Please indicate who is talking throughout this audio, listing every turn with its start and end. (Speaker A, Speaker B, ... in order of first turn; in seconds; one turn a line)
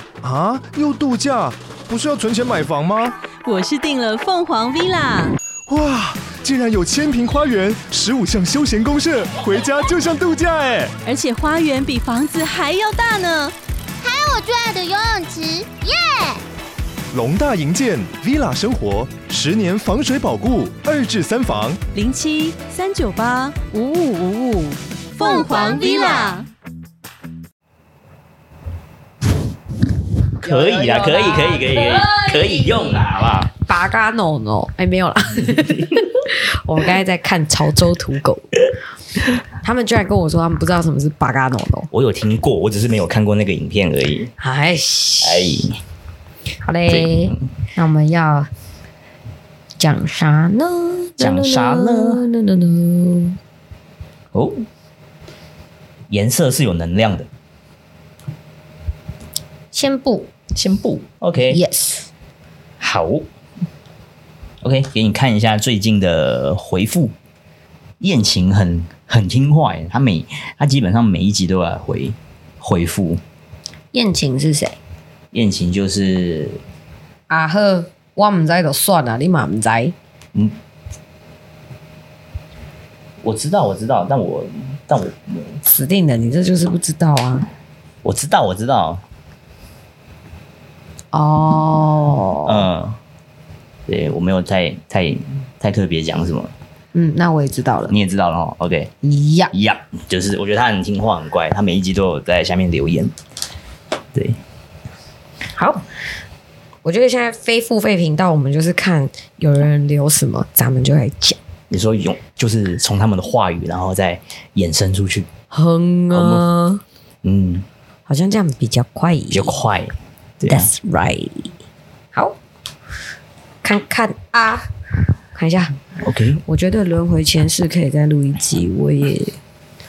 Speaker A: 0.2-3.1
Speaker B: 3.4-5.3
Speaker A: 5.7-10.9
Speaker B: 11.0-13.5
Speaker C: 14.0-16.4
Speaker A: 17.1-21.8
Speaker B: 21.9-26.5
Speaker C: 25.2-26.4
Speaker D: 30.4-33.5
Speaker E: 30.4-32.0
Speaker E: 33.5-38.6
Speaker E: 39.5-41.9
Speaker D: 41.9-44.3
Speaker E: 44.4-45.7
Speaker D: 45.2-45.8
Speaker E: 46.6-48.5
Speaker D: 46.9-47.4
Speaker E: 49.8-53.4
Speaker D: 51.2-52.2
Speaker D: 54.3-54.6
Speaker D: 56.1-57.3
Speaker E: 59.7-60.3
Speaker D: 60.5-61.6
Speaker E: 61.5-62.1
Speaker D: 62.8-63.2
Speaker D: 64.6-67.1
Speaker D: 68.0-73.2
Speaker E: 73.9-74.8
Speaker D: 75.3-76.6
Speaker E: 77.3-79.9
Speaker D: 83.2-85.6
Speaker E: 85.6-87.4
Speaker D: 88.0-89.0
Speaker E: 91.1-92.7
Speaker D: 92.4-93.0
Speaker D: 93.9-96.5
Speaker E: 96.9-97.9
Speaker D: 97.9-98.9
Speaker E: 99.0-99.5
Speaker D: 99.5-103.1
Speaker D: 104.1-104.4
Speaker E: 105.5-105.8
Speaker E: 106.8-111.4
Speaker D: 111.7-115.3
Speaker E: 115.5-116.8
Speaker D: 116.1-116.5
Speaker D: 117.2-117.7
Speaker E: 118.1-119.6
Speaker D: 119.3-120.7
Speaker E: 120.5-121.5
Speaker E: 123.6-124.7
Speaker E: 125.3-125.7
Speaker D: 126.0-126.4
Speaker E: 126.5-129.3